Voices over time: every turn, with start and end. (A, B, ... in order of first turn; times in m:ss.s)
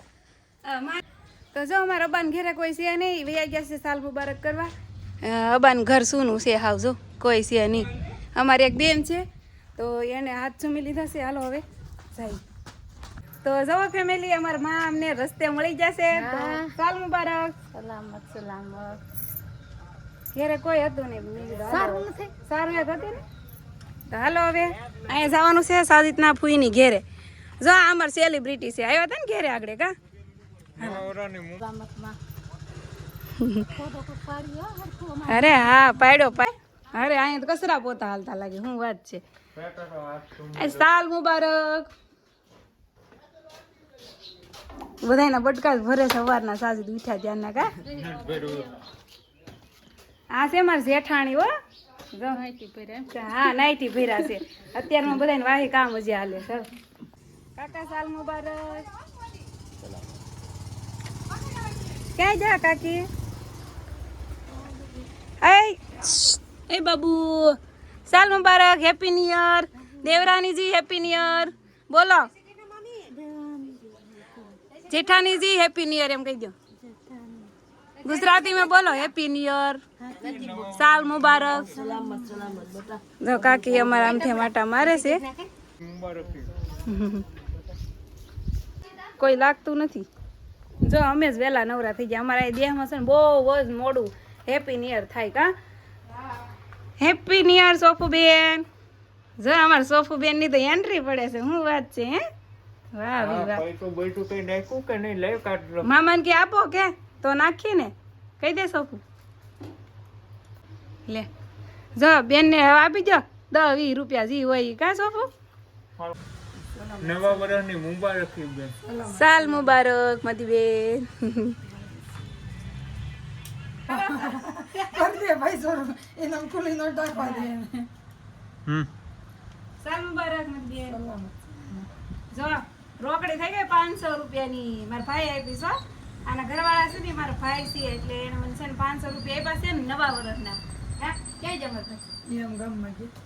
0:00.6-0:04.7 A
0:05.2-0:09.2 A
0:09.8-0:12.4 A
0:13.4-0:17.7 A
0:16.2-0:16.7 B
0:17.7-0:19.0 B
0:20.3-0:23.2 A
0:21.7-0:22.3 B
0:24.1-0:27.0 A
0:27.6-0:29.9 A
0:30.8-0:31.6 C
0:31.7-0:32.2 B
0:33.4-0:33.7 A
0:33.7-0:35.6 B
0:35.3-0:39.2 A
0:39.6-0:40.9 C
0:40.6-0:41.9 A
0:45.0-0:47.8 A
0:47.9-0:48.7 C
0:50.3-0:51.5 A
0:52.1-0:52.4 A
0:52.4-0:53.1 B
0:53.1-0:56.7 A
0:57.6-0:58.9 A
1:02.2-1:03.1 A
1:05.4-1:12.3 A
1:12.8-1:14.0 B
1:14.9-1:16.6 A
1:16.9-1:17.5 B
1:18.0-1:19.8 A
1:20.1-1:20.6 B
1:20.2-1:22.0 C
1:20.6-1:21.8 A
1:21.7-1:23.0 B
1:23.2-1:25.2 A
1:23.5-1:24.4 B
1:25.0-1:25.5 B
1:25.8-1:26.5 C
1:26.9-1:27.3 A
1:29.2-1:30.1 A
1:30.8-1:35.5 A
1:37.0-1:38.7 A
1:39.4-1:42.2 A
1:42.9-1:43.6 A
1:43.2-1:45.9 C
1:45.8-1:49.0 A
1:52.0-1:55.3 A
1:57.0-1:58.7 C
1:58.9-2:01.6 A
2:03.8-2:05.1 A
2:03.9-2:07.9 D
2:07.1-2:07.5 A
2:09.8-2:11.0 A
2:10.9-2:11.9 D
2:12.3-2:22.0 A
2:22.3-2:23.1 D